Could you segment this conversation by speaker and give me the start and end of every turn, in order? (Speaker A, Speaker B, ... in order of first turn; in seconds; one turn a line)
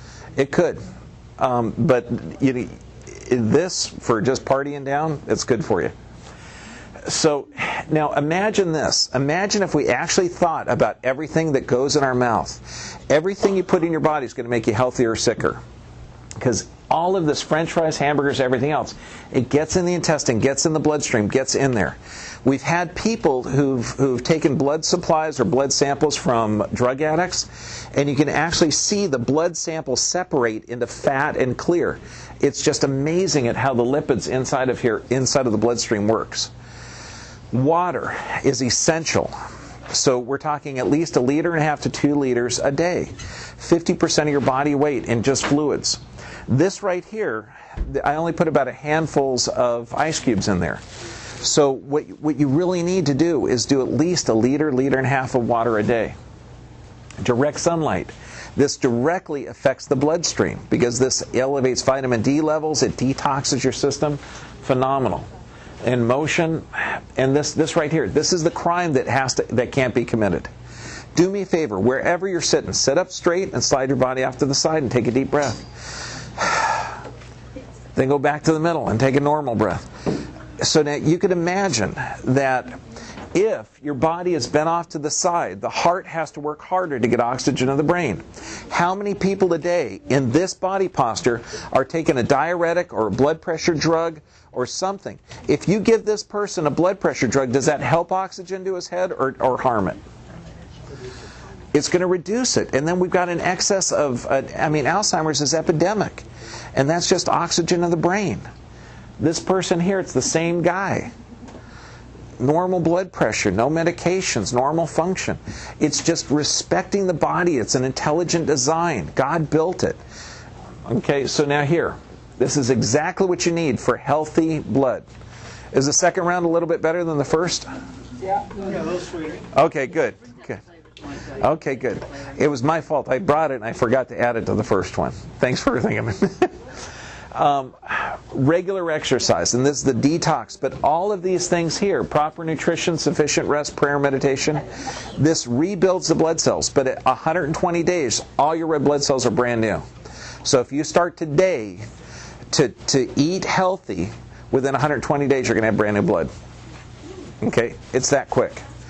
Speaker A: 0.3-0.8
Speaker A: 1.4-5.9
Speaker A: 7.0-15.6
Speaker A: 16.4-36.5
Speaker A: 37.5-39.4
Speaker A: 39.9-50.8
Speaker A: 51.4-56.1
Speaker A: 57.2-65.3
Speaker A: 65.8-70.5
Speaker A: 71.2-77.0
Speaker A: 77.9-79.9
Speaker A: 80.6-82.8
Speaker A: 83.3-100.0
Speaker A: 101.7-108.5
Speaker A: 109.2-111.1
Speaker A: 112.4-120.0
Speaker A: 120.9-125.1
Speaker A: 125.7-127.7
Speaker A: 129.5-130.6
Speaker A: 131.2-136.6
Speaker A: 137.3-149.8
Speaker A: 150.4-151.8
Speaker A: 152.5-156.3
Speaker A: 157.4-158.7